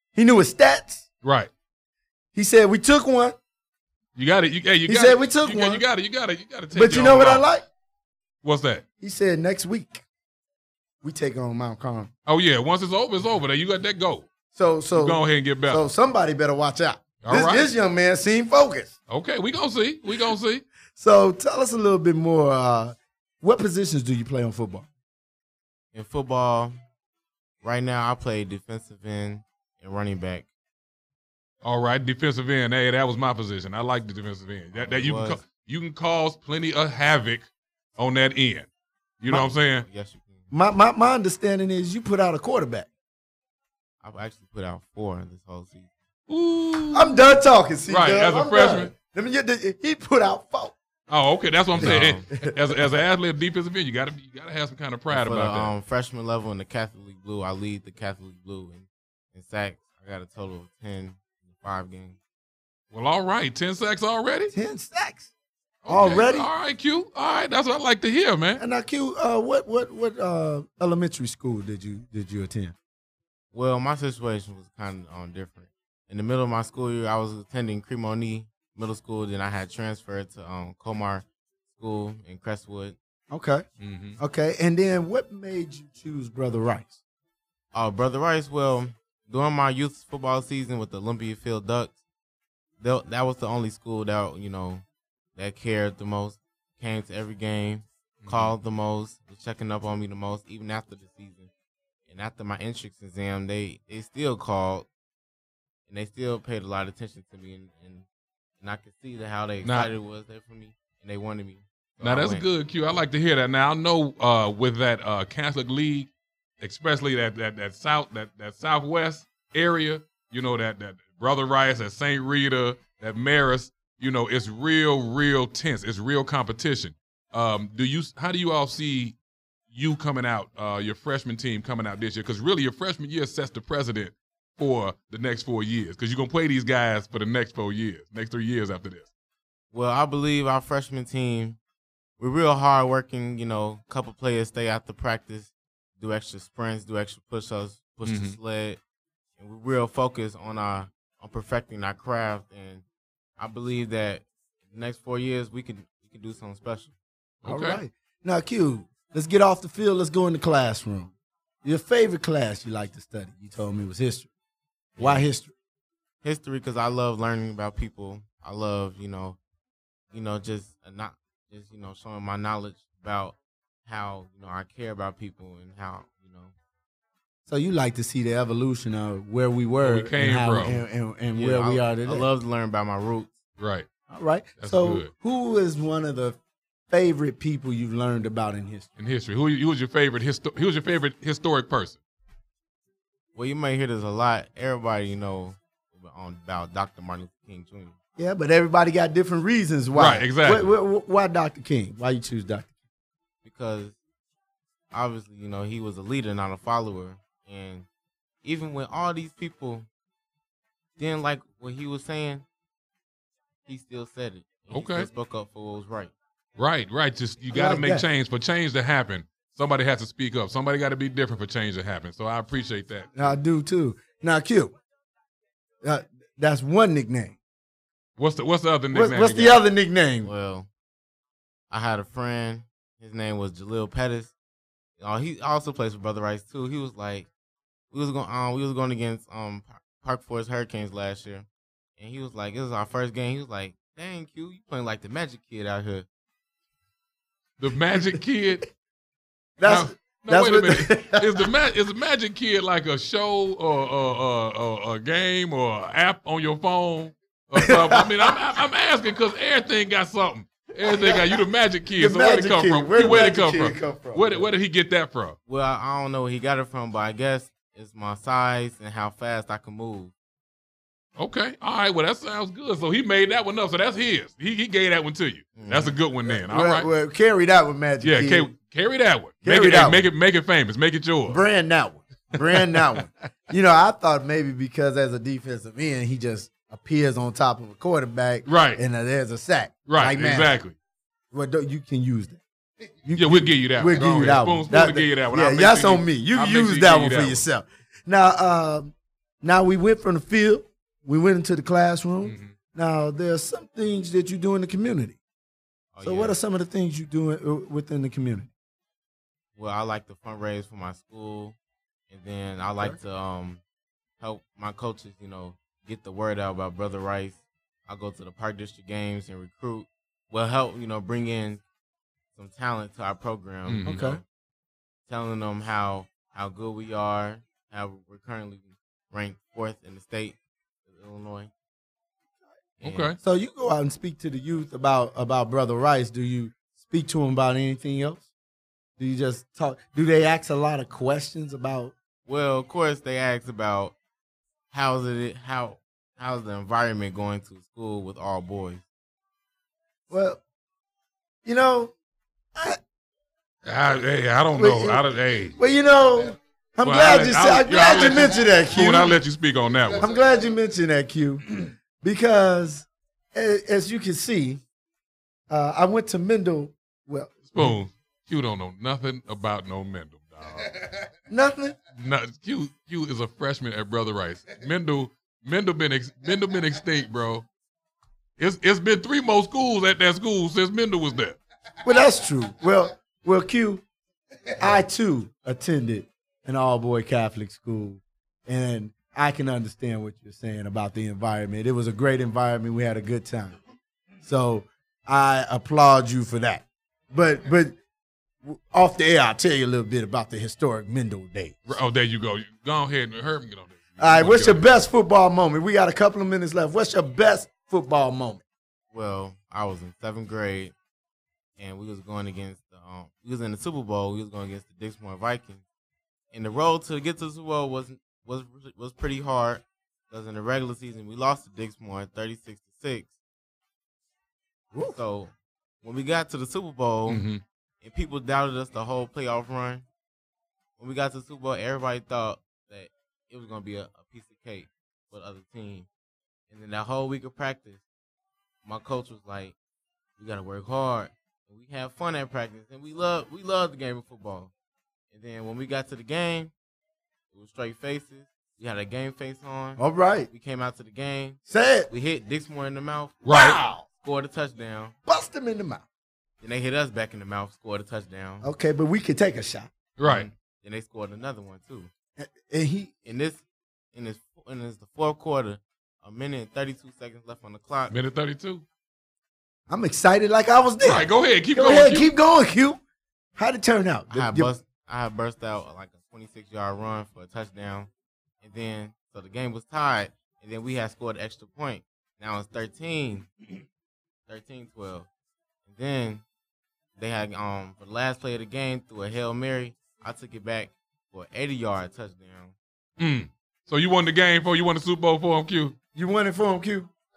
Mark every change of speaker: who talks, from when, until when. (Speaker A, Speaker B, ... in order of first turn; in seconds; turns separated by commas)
Speaker A: 0.2-1.1, Speaker B: 1.2-1.5, Speaker A: 2.3-3.4, Speaker B: 4.2-7.5, Speaker A: 4.9-5.8, Speaker A: 6.7-7.7, Speaker B: 8.4-8.8, Speaker A: 9.0-10.0, Speaker A: 11.0-12.1, Speaker B: 12.3-14.3, Speaker A: 14.5-18.9, Speaker B: 14.9-15.8, Speaker B: 17.2-17.7, Speaker B: 19.1-20.6, Speaker A: 21.0-24.9, Speaker C: 25.9-26.8, Speaker C: 27.6-30.5, Speaker B: 31.6-38.7, Speaker C: 34.7-35.4, Speaker B: 39.2-39.9, Speaker C: 39.7-40.5, Speaker A: 40.5-42.9, Speaker C: 44.0-45.9, Speaker B: 46.3-47.2, Speaker A: 46.9-50.8, Speaker B: 47.9-48.9, Speaker B: 51.1-55.8, Speaker C: 51.8-52.3, Speaker A: 51.8-52.8, Speaker C: 55.1-62.2, Speaker B: 62.9-64.5, Speaker A: 64.5-65.3, Speaker B: 65.8-68.6, Speaker A: 65.9-66.5, Speaker A: 68.6-72.8, Speaker C: 73.5-83.0, Speaker A: 83.3-83.7, Speaker B: 83.8-84.2, Speaker A: 84.2-87.0, Speaker C: 87.7-92.0, Speaker C: 92.8-94.8, Speaker C: 95.4-101.5, Speaker B: 98.2-98.5, Speaker C: 102.1-104.9, Speaker C: 105.9-108.1, Speaker C: 108.6-112.5, Speaker B: 109.6-109.9, Speaker B: 112.0-129.2, Speaker B: 129.7-139.1, Speaker C: 139.7-141.6, Speaker C: 142.2-148.8, Speaker B: 148.0-148.4, Speaker C: 149.4-152.8, Speaker C: 153.4-156.9, Speaker B: 157.4-157.8, Speaker A: 157.5-161.1, Speaker A: 161.6-164.3, Speaker A: 165.0-165.5, Speaker C: 165.0-165.3, Speaker C: 166.2-169.4, Speaker C: 170.1-176.5, Speaker A: 177.5-182.3, Speaker B: 179.8-180.8, Speaker C: 181.3-183.3, Speaker B: 183.6-183.9, Speaker A: 184.1-186.4, Speaker B: 184.6-185.1, Speaker A: 186.9-188.9, Speaker B: 189.0-192.0, Speaker C: 193.3-197.9, Speaker A: 198.2-202.8, Speaker B: 199.9-200.7, Speaker C: 203.4-204.0, Speaker C: 204.9-207.9, Speaker C: 208.4-209.9, Speaker C: 211.0-212.4, Speaker C: 213.7-216.1, Speaker B: 214.7-215.1, Speaker B: 216.6-223.3, Speaker A: 217.5-218.1, Speaker A: 223.2-224.8, Speaker A: 225.8-227.4, Speaker B: 228.2-229.6, Speaker A: 228.9-230.3, Speaker C: 230.2-230.7, Speaker C: 231.7-234.3, Speaker C: 235.0-237.3, Speaker C: 237.9-246.1, Speaker B: 247.6-248.7, Speaker A: 249.6-251.5, Speaker B: 249.6-265.4, Speaker A: 257.6-258.3, Speaker A: 260.8-261.3, Speaker A: 262.0-264.5, Speaker C: 265.5-270.1, Speaker B: 271.2-276.9, Speaker C: 275.6-276.0, Speaker A: 276.3-278.5, Speaker B: 278.0-281.4, Speaker A: 279.4-280.1, Speaker A: 281.3-290.6, Speaker B: 282.4-282.9, Speaker B: 288.4-288.8, Speaker B: 289.9-290.8, Speaker A: 291.3-292.4, Speaker A: 293.1-305.2, Speaker B: 293.1-297.4, Speaker B: 302.2-302.5, Speaker C: 305.9-306.4, Speaker A: 306.0-308.5, Speaker C: 309.6-311.6, Speaker C: 312.1-313.6, Speaker C: 314.2-321.6, Speaker C: 322.4-323.9, Speaker B: 323.7-324.2, Speaker A: 323.9-324.2, Speaker C: 325.1-331.5, Speaker C: 332.8-333.1, Speaker B: 332.8-333.2, Speaker A: 333.2-338.3, Speaker A: 339.0-341.9, Speaker C: 342.3-343.9, Speaker C: 344.7-348.8, Speaker A: 350.1-350.4, Speaker A: 351.4-351.9, Speaker B: 353.6-355.6, Speaker A: 354.5-355.0, Speaker A: 355.5-359.2, Speaker B: 356.8-360.1, Speaker A: 360.0-364.6, Speaker A: 365.5-367.8, Speaker B: 367.5-370.9, Speaker A: 371.3-371.8, Speaker B: 372.0-377.5, Speaker B: 378.4-381.4, Speaker A: 381.8-383.8, Speaker A: 384.6-393.6, Speaker A: 394.2-397.8, Speaker A: 398.4-401.6, Speaker B: 401.7-404.7, Speaker A: 404.0-408.4, Speaker C: 408.9-410.7, Speaker C: 411.6-415.6, Speaker C: 416.3-423.1, Speaker A: 424.7-425.0, Speaker C: 424.9-427.3, Speaker B: 427.1-427.4, Speaker C: 427.8-429.9, Speaker C: 430.8-435.9, Speaker C: 436.5-437.8, Speaker C: 438.6-439.6, Speaker C: 440.2-444.5, Speaker C: 445.1-446.5, Speaker C: 447.3-453.2, Speaker A: 449.8-450.3, Speaker A: 451.5-451.9, Speaker B: 453.2-453.6, Speaker A: 453.3-453.9, Speaker C: 453.9-454.9, Speaker A: 455.1-455.9, Speaker C: 456.4-458.5, Speaker A: 458.4-459.7, Speaker B: 460.0-460.3, Speaker C: 460.0-461.9, Speaker A: 462.2-462.9, Speaker C: 463.0-468.0, Speaker B: 467.9-468.6, Speaker A: 469.7-472.8, Speaker B: 470.8-472.1, Speaker A: 473.4-474.5, Speaker C: 474.1-477.9, Speaker C: 478.4-483.3, Speaker C: 484.3-485.1, Speaker C: 485.7-486.2, Speaker C: 487.0-492.6, Speaker B: 493.0-495.8, Speaker A: 495.9-496.9